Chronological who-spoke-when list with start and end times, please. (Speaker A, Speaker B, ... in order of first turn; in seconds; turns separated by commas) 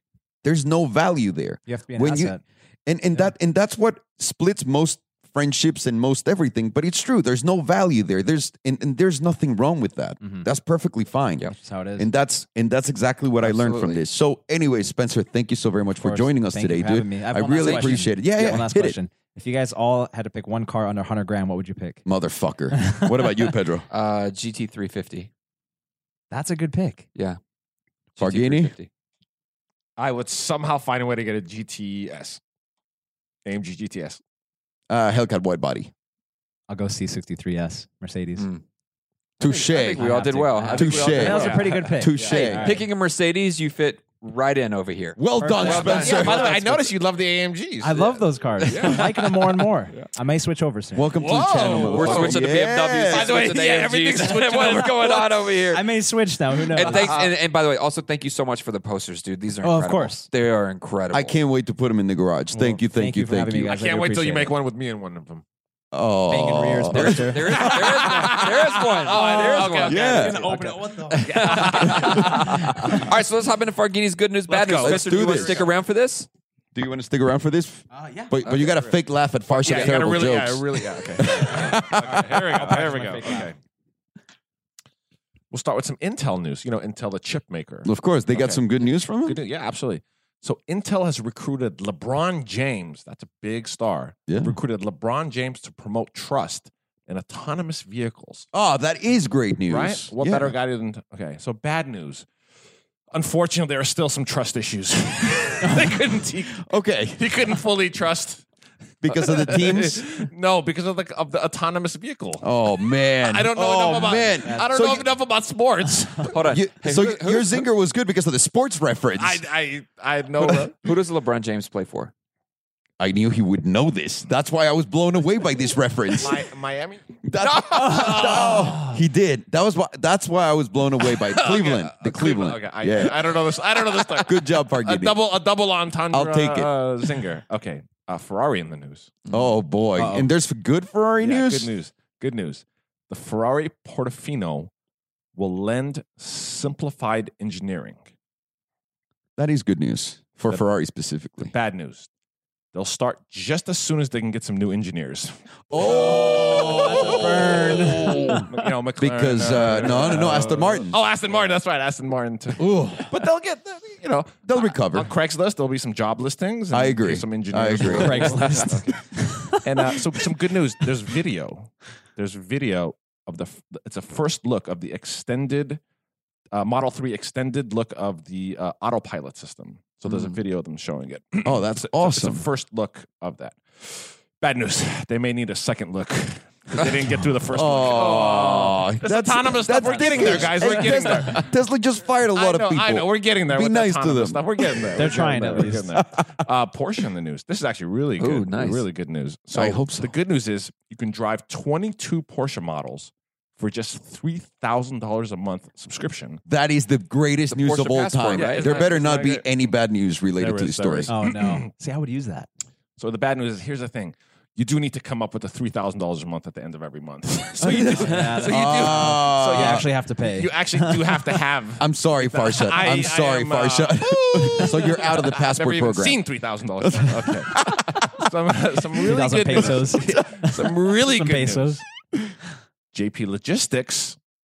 Speaker A: 0.4-11.4, Speaker B: 1.7-2.4, Speaker B: 10.2-10.5, Speaker B: 11.6-12.1, Speaker A: 12.0-19.0, Speaker C: 13.4-14.0, Speaker B: 16.0-22.0, Speaker C: 17.6-18.0, Speaker A: 22.1-23.9, Speaker C: 23.9-25.3, Speaker B: 26.3-27.1, Speaker C: 28.2-28.9, Speaker A: 28.2-28.7, Speaker D: 30.0-32.4, Speaker D: 33.4-34.2, Speaker A: 34.9-35.9, Speaker B: 36.7-38.4, Speaker C: 38.4-38.6, Speaker A: 39.4-40.0, Speaker C: 39.4-46.4, Speaker B: 40.0-42.9, Speaker A: 40.7-42.8, Speaker D: 41.2-42.4, Speaker A: 45.2-46.7, Speaker B: 45.4-46.8, Speaker D: 45.8-50.1, Speaker B: 47.8-51.1, Speaker C: 48.6-49.0, Speaker A: 50.9-53.3, Speaker D: 51.2-52.5, Speaker C: 51.6-55.9, Speaker D: 53.1-55.3, Speaker B: 55.7-57.2, Speaker C: 56.7-61.4, Speaker D: 56.9-57.3, Speaker B: 59.6-60.3, Speaker A: 61.1-63.7, Speaker B: 62.5-64.5, Speaker D: 63.6-65.4, Speaker A: 65.9-67.8, Speaker B: 66.3-68.4, Speaker C: 66.9-76.3, Speaker D: 67.5-73.0, Speaker B: 69.0-72.2, Speaker A: 69.8-70.5, Speaker A: 71.9-73.0, Speaker D: 74.5-75.7, Speaker A: 74.8-75.7, Speaker A: 76.7-82.3, Speaker B: 77.9-78.3, Speaker C: 78.4-78.9, Speaker D: 79.5-83.5, Speaker C: 79.6-80.0, Speaker B: 82.0-83.5, Speaker D: 85.5-88.6, Speaker A: 87.8-89.4, Speaker D: 89.2-98.5, Speaker A: 94.3-94.5, Speaker A: 98.5-100.5, Speaker D: 99.7-102.3, Speaker D: 103.1-108.5, Speaker A: 106.6-107.2, Speaker A: 109.0-110.3, Speaker D: 109.1-112.5, Speaker A: 112.4-115.0, Speaker D: 113.1-116.3, Speaker B: 114.4-114.9, Speaker C: 116.3-117.6, Speaker A: 116.5-119.4, Speaker D: 119.2-120.7, Speaker C: 120.8-122.1, Speaker A: 123.0-126.4, Speaker D: 126.2-128.7, Speaker A: 127.2-133.4, Speaker B: 127.7-128.9, Speaker D: 131.1-139.1, Speaker A: 134.0-135.2, Speaker A: 136.1-136.7, Speaker A: 139.3-141.7, Speaker B: 140.0-140.3, Speaker D: 141.2-144.7, Speaker D: 145.3-148.0, Speaker A: 149.4-151.5, Speaker D: 151.4-152.1, Speaker D: 152.7-155.3, Speaker A: 155.7-161.0, Speaker B: 155.8-158.5, Speaker D: 158.4-175.8, Speaker A: 162.6-163.2, Speaker A: 164.4-165.1, Speaker A: 166.7-168.8, Speaker B: 167.8-169.6, Speaker D: 176.5-191.5, Speaker A: 181.4-182.4, Speaker A: 187.5-194.8, Speaker D: 192.3-206.4, Speaker B: 194.9-195.9, Speaker A: 195.9-196.3, Speaker C: 198.2-198.8, Speaker A: 199.5-200.1, Speaker A: 206.4-211.1, Speaker C: 207.5-208.9, Speaker D: 208.3-209.5, Speaker D: 210.4-211.7, Speaker B: 211.1-212.5, Speaker D: 213.0-231.8, Speaker A: 217.6-219.9, Speaker B: 217.9-221.2, Speaker A: 221.8-226.2, Speaker A: 226.8-228.2, Speaker B: 229.0-231.8, Speaker A: 229.7-230.2, Speaker D: 232.9-234.2